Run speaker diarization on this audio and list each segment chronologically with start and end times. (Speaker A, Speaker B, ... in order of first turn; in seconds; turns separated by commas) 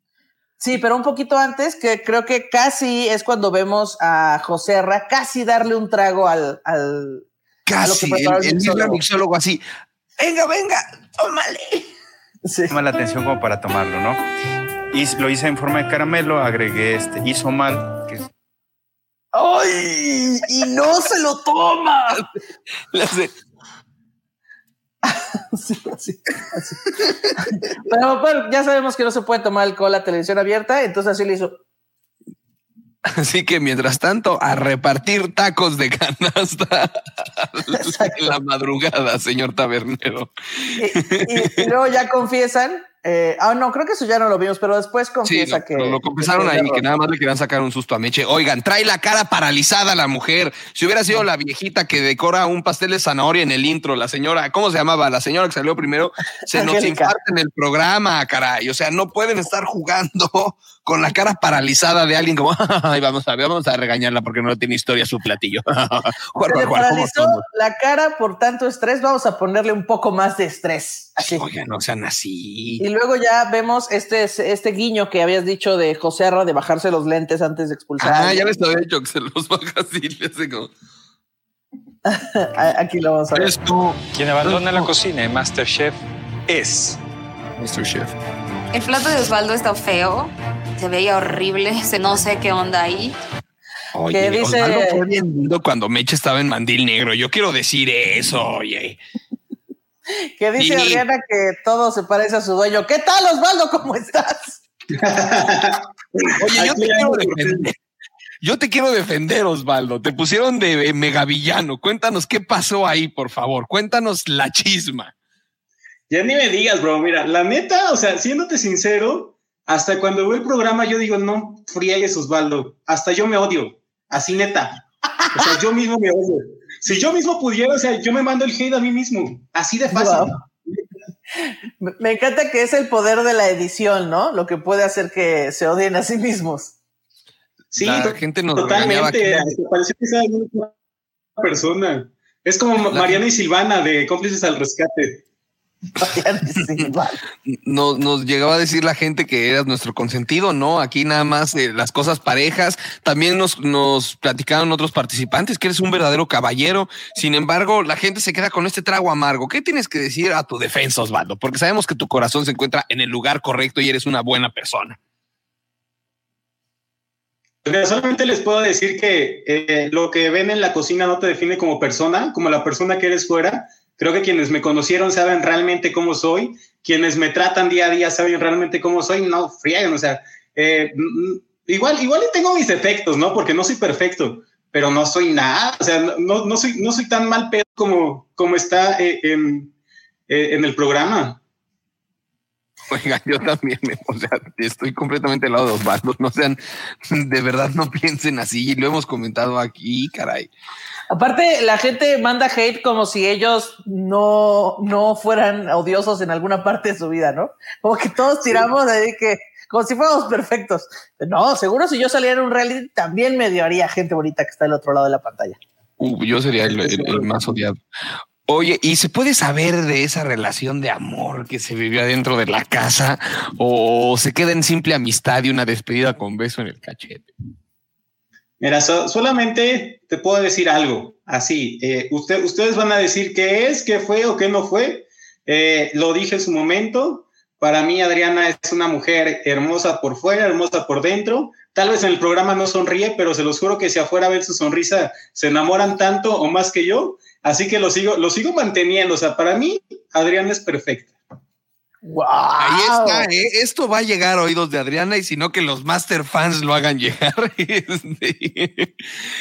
Speaker A: 0.6-7.2, Speaker B: 7.7-9.6, Speaker A: 7.8-9.0, Speaker B: 10.2-11.9, Speaker A: 12.5-12.7, Speaker C: 12.7-14.2, Speaker C: 14.9-18.2, Speaker A: 19.3-22.2, Speaker B: 22.9-23.3, Speaker A: 25.0-31.6, Speaker B: 33.1-41.6, Speaker A: 37.7-38.3, Speaker A: 40.8-46.8, Speaker B: 45.2-67.4, Speaker A: 56.5-57.1, Speaker A: 66.5-71.4, Speaker B: 71.2-72.8, Speaker A: 72.8-78.5, Speaker B: 78.0-80.7, Speaker A: 82.0-83.5, Speaker B: 83.3-84.0, Speaker D: 84.3-87.0, Speaker B: 87.6-88.1, Speaker E: 88.7-93.2, Speaker B: 93.9-99.0, Speaker A: 94.1-95.0, Speaker A: 100.4-104.6, Speaker B: 100.6-101.0, Speaker F: 105.0-107.7, Speaker B: 106.4-107.8, Speaker B: 108.4-115.1, Speaker F: 116.1-124.8, Speaker F: 125.3-130.8, Speaker A: 129.9-130.4, Speaker A: 131.4-136.8, Speaker F: 137.7-140.8, Speaker B: 137.8-139.4, Speaker F: 141.4-145.2, Speaker B: 142.9-143.2, Speaker A: 146.0-147.2, Speaker B: 147.5-165.0, Speaker F: 167.7-189.7, Speaker F: 190.3-191.4, Speaker B: 192.9-196.6, Speaker B: 197.1-200.5, Speaker A: 201.1-215.6, Speaker B: 216.0-217.8, Speaker F: 216.9-217.2, Speaker B: 218.5-227.3, Speaker F: 228.6-251.2, Speaker A: 252.0-253.3, Speaker B: 252.6-259.0